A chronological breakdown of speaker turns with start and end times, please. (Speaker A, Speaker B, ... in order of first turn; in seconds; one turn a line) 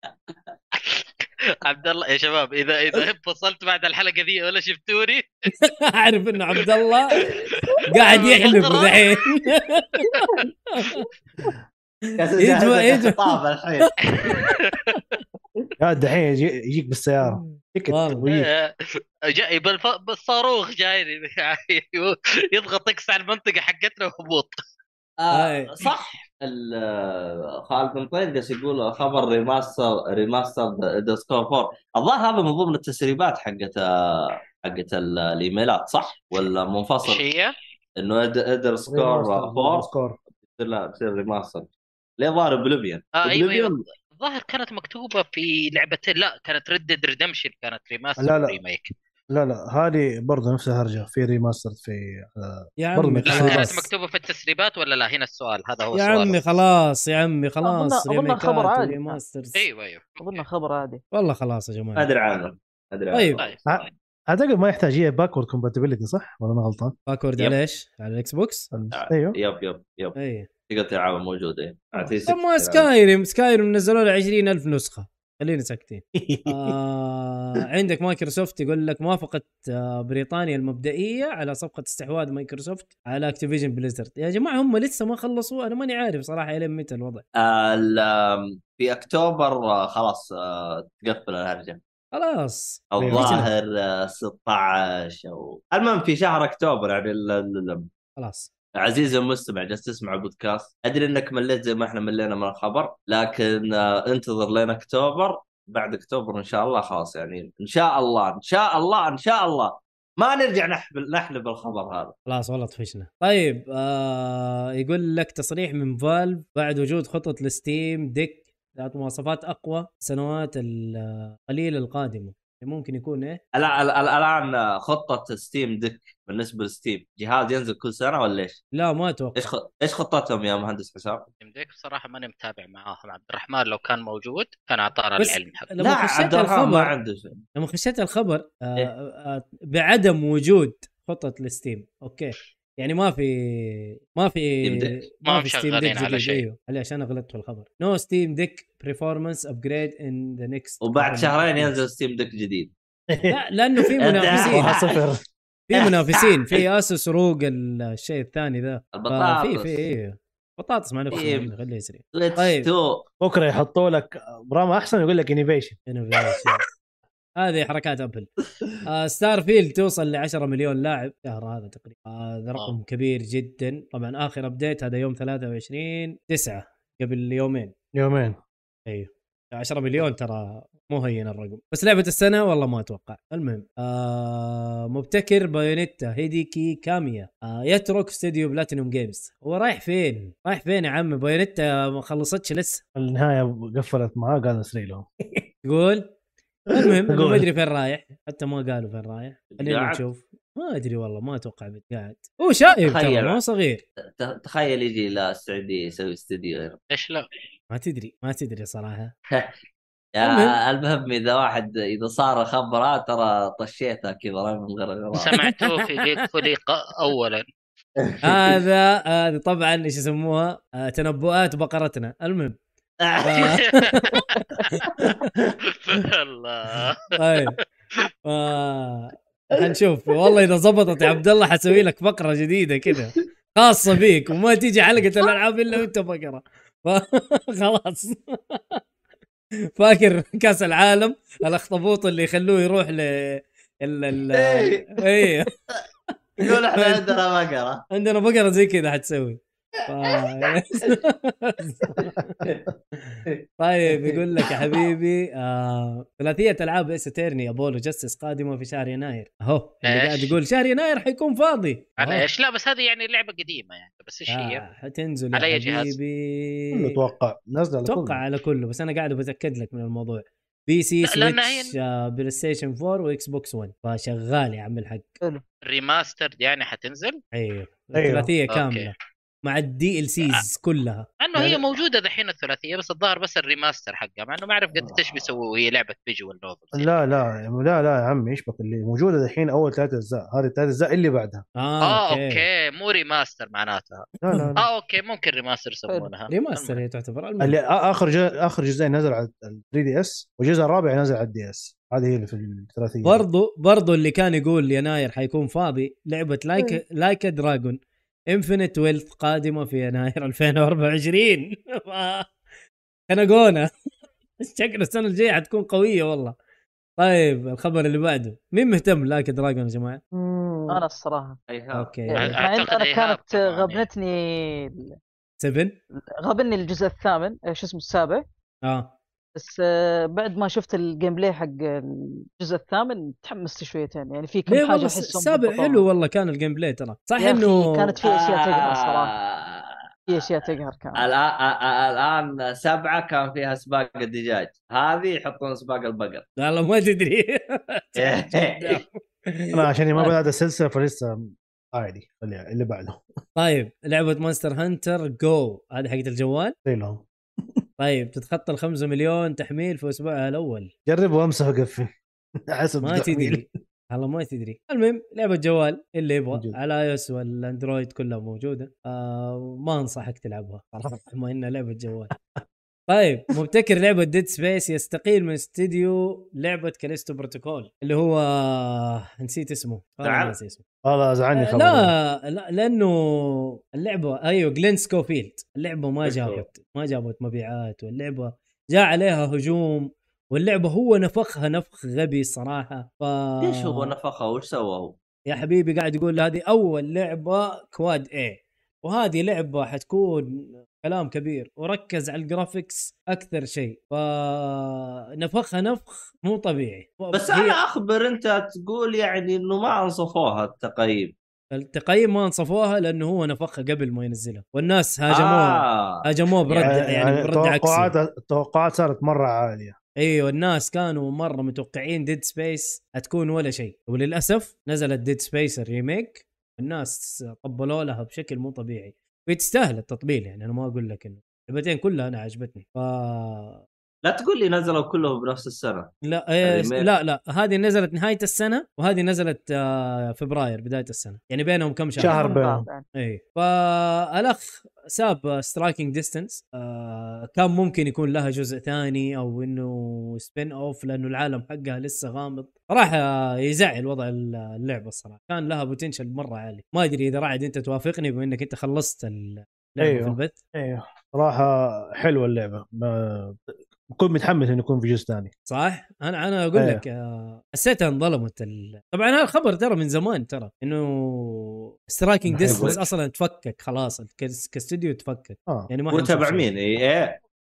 Speaker A: 0.7-5.3
Speaker B: 5.6-7.2
Speaker A: 7.2-9.1
Speaker B: 7.9-11.0
Speaker A: 10.1-10.4
Speaker C: 12.2-13.9
Speaker B: 12.4-13.4
Speaker A: 14.2-15.0
Speaker D: 15.8-18.5
Speaker B: 17.9-18.2
Speaker A: 18.3-18.7
Speaker A: 19.3-24.6
Speaker C: 25.2-37.2
Speaker B: 25.3-25.8
Speaker A: 37.0-37.5
Speaker C: 38.0-39.9
Speaker D: 38.9-40.2
Speaker C: 40.5-41.7
Speaker C: 42.2-43.8
Speaker A: 43.2-48.9
Speaker D: 48.2-48.6
Speaker D: 49.3-53.9
Speaker B: 52.8-53.8
Speaker A: 53.3-56.6
Speaker B: 55.9-59.6
Speaker E: 57.6-59.2
Speaker A: 59.5-60.4
Speaker E: 60.2-61.0
Speaker B: 61.1-62.1
Speaker C: 62.0-63.8
Speaker B: 63.1-63.4
Speaker D: 63.6-66.9
Speaker B: 67.1-68.7
Speaker D: 68.7-69.3
Speaker C: 68.9-70.2
Speaker B: 70.1-70.5
Speaker C: 70.7-72.9
Speaker B: 72.2-87.2
Speaker D: 76.1-76.8
Speaker C: 87.4-91.8
Speaker B: 92.1-93.4
Speaker C: 92.9-97.9
Speaker D: 93.0-93.5
Speaker B: 98.2-98.5
Speaker C: 98.8-112.1
Speaker B: 112.3-123.4
Speaker C: 123.5-128.6
Speaker B: 128.7-129.5
Speaker C: 129.3-131.3
Speaker A: 131.4-135.7
Speaker B: 135.2-136.9
Speaker C: 135.8-137.4
Speaker B: 137.6-151.8
Speaker C: 144.6-145.0
Speaker A: 145.2-146.4
Speaker C: 150.8-152.7
Speaker D: 153.1-153.4
Speaker B: 153.3-154.8
Speaker C: 154.0-155.0
Speaker D: 154.3-155.2
Speaker B: 155.7-162.7
Speaker C: 155.7-156.6
Speaker C: 158.9-159.9
Speaker C: 161.1-161.5
Speaker C: 162.1-163.1
Speaker D: 163.2-165.8
Speaker B: 165.9-166.6
Speaker B: 167.4-168.3
Speaker B: 168.8-177.7
Speaker D: 177.9-178.4
Speaker B: 178.9-192.8
Speaker D: 192.9-195.4
Speaker B: 195.6-196.1
Speaker B: 196.7-203.8
Speaker D: 196.8-197.4
Speaker C: 199.5-200.0
Speaker C: 202.8-203.4
Speaker C: 204.2-206.8
Speaker A: 206.9-207.3
Speaker B: 207.7-209.1
Speaker C: 210.1-215.3
Speaker B: 210.2-210.6
Speaker A: 215.1-217.4
Speaker B: 215.5-215.9
Speaker C: 218.0-218.6
Speaker B: 218.2-222.6
Speaker C: 223.0-223.5
Speaker B: 223.2-225.3
Speaker A: 223.4-224.4
Speaker A: 225.8-227.6
Speaker B: 227.2-227.6
Speaker B: 228.2-238.8
Speaker B: 239.8-245.5
Speaker C: 244.3-245.3
Speaker B: 246.4-247.1
Speaker C: 246.4-247.8
Speaker B: 247.9-252.4
Speaker C: 250.1-250.8
Speaker B: 253.0-262.2
Speaker C: 253.9-254.8
Speaker A: 259.8-260.3
Speaker A: 262.0-264.6
Speaker B: 264.3-266.9
Speaker A: 265.3-265.9
Speaker D: 266.7-268.2
Speaker B: 267.9-275.2
Speaker A: 271.0-271.8
Speaker A: 275.6-277.2
Speaker B: 277.3-278.9
Speaker D: 277.9-278.3
Speaker A: 278.5-278.9
Speaker B: 279.4-281.1
Speaker A: 281.2-286.9
Speaker D: 281.3-281.6
Speaker D: 284.8-285.0
Speaker D: 286.7-291.4
Speaker B: 291.6-292.4
Speaker A: 291.8-296.8
Speaker D: 294.2-294.6
Speaker B: 296.3-297.6
Speaker D: 297.4-303.2
Speaker B: 303.0-307.8
Speaker B: 308.3-312.3
Speaker B: 313.1-313.7
Speaker B: 314.4-316.3
Speaker B: 317.0-320.0
Speaker D: 320.2-320.8
Speaker E: 320.7-321.4
Speaker C: 321.5-322.0
Speaker B: 321.7-322.4
Speaker E: 322.1-324.9
Speaker A: 322.1-323.9
Speaker B: 325.4-325.7
Speaker E: 326.2-328.2
Speaker B: 328.6-328.9
Speaker E: 329.4-335.8
Speaker B: 334.5-337.9
Speaker E: 337.2-339.1
Speaker C: 338.0-339.8
Speaker E: 340.1-341.1
Speaker C: 340.9-346.2
Speaker B: 346.4-350.1
Speaker C: 347.9-348.8
Speaker D: 349.5-353.0
Speaker B: 353.4-356.5
Speaker D: 356.6-357.6
Speaker B: 357.8-360.7
Speaker D: 360.9-361.9
Speaker D: 362.5-363.5
Speaker B: 362.8-372.1
Speaker B: 372.9-380.6
Speaker C: 380.0-380.4
Speaker D: 380.8-381.9
Speaker B: 381.3-393.9
Speaker C: 386.0-386.4
Speaker C: 393.4-394.9
Speaker B: 395.3-407.6
Speaker C: 407.1-411.1
Speaker B: 411.5-417.9
Speaker C: 415.1-416.7
Speaker D: 416.7-419.8
Speaker B: 420.0-433.6
Speaker C: 434.0-436.9
Speaker B: 436.1-442.4
Speaker E: 442.0-442.8
Speaker D: 442.0-442.7
Speaker B: 442.9-460.4
Speaker D: 459.8-465.3
Speaker B: 465.5-476.5
Speaker D: 466.5-466.8
Speaker D: 472.3-472.8
Speaker C: 472.4-472.9
Speaker C: 475.9-477.2